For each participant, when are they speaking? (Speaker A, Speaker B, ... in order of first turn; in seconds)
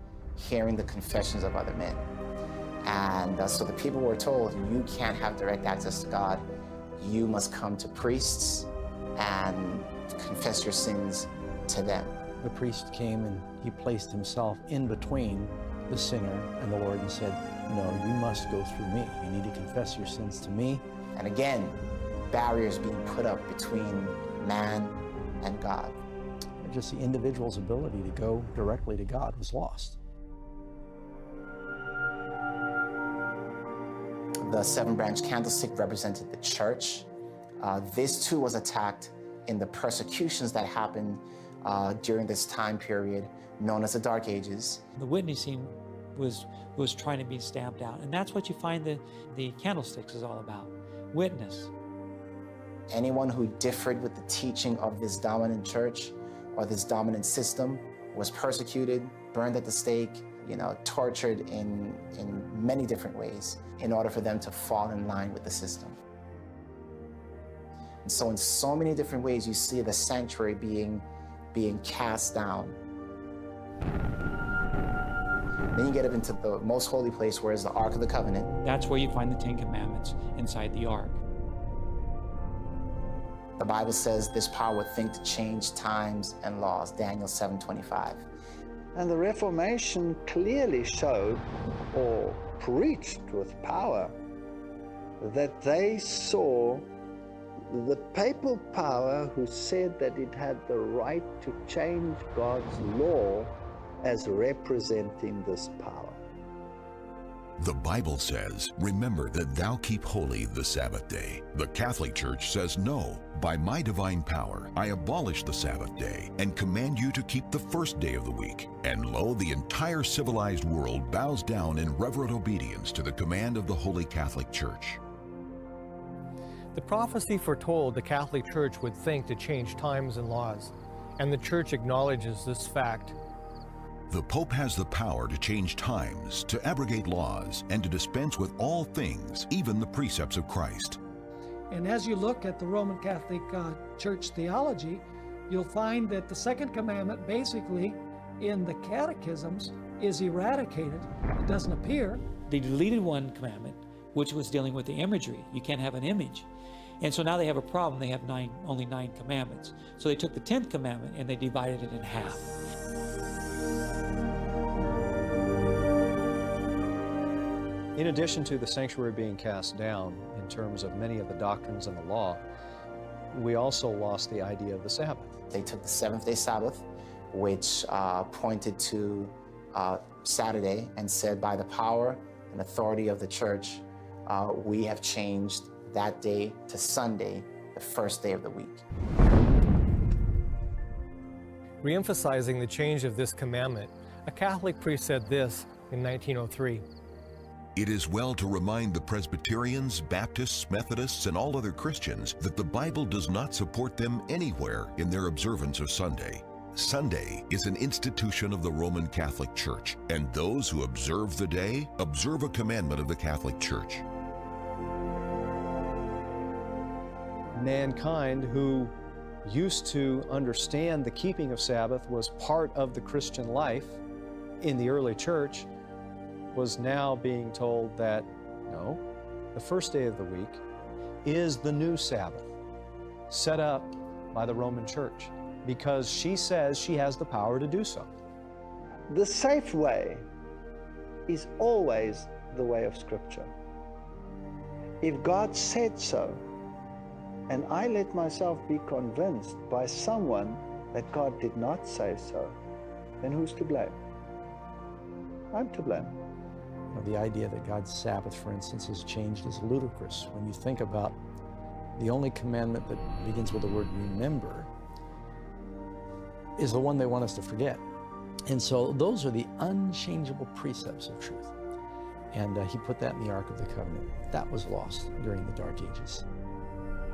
Speaker A: 0.4-2.1, 2.8-6.4, 7.0-12.2, 21.1-21.8, 22.3-26.0, 34.4-37.1, 37.6-44.8, 52.9-66.0, 68.0-72.8, 75.7-78.5, 83.6-88.2, 175.5-188.8
Speaker B: 12.4-20.8, 26.6-30.0, 256.9-261.2, 262.0-264.7, 266.6-267.8, 268.5-271.5, 272.3-276.2
Speaker C: 45.0-51.7, 78.6-81.2, 152.5-156.5, 157.0-162.5
Speaker D: 88.9-94.2, 95.2-96.9, 97.7-106.2, 239.1-240.3, 241.3-243.5, 245.0-246.4, 247.5-252.6, 253.2-254.0, 255.5-256.1
Speaker E: 107.6-125.0, 134.1-141.0, 197.8-214.0
Speaker F: 126.7-133.2, 191.8-196.8
Speaker G: 141.7-152.2
Speaker H: 167.9-172.4, 173.3-175.3, 217.5-218.9, 219.4-224.0, 224.6-225.7, 226.5-229.0, 229.5-230.6, 231.2-232.4, 233.3-238.1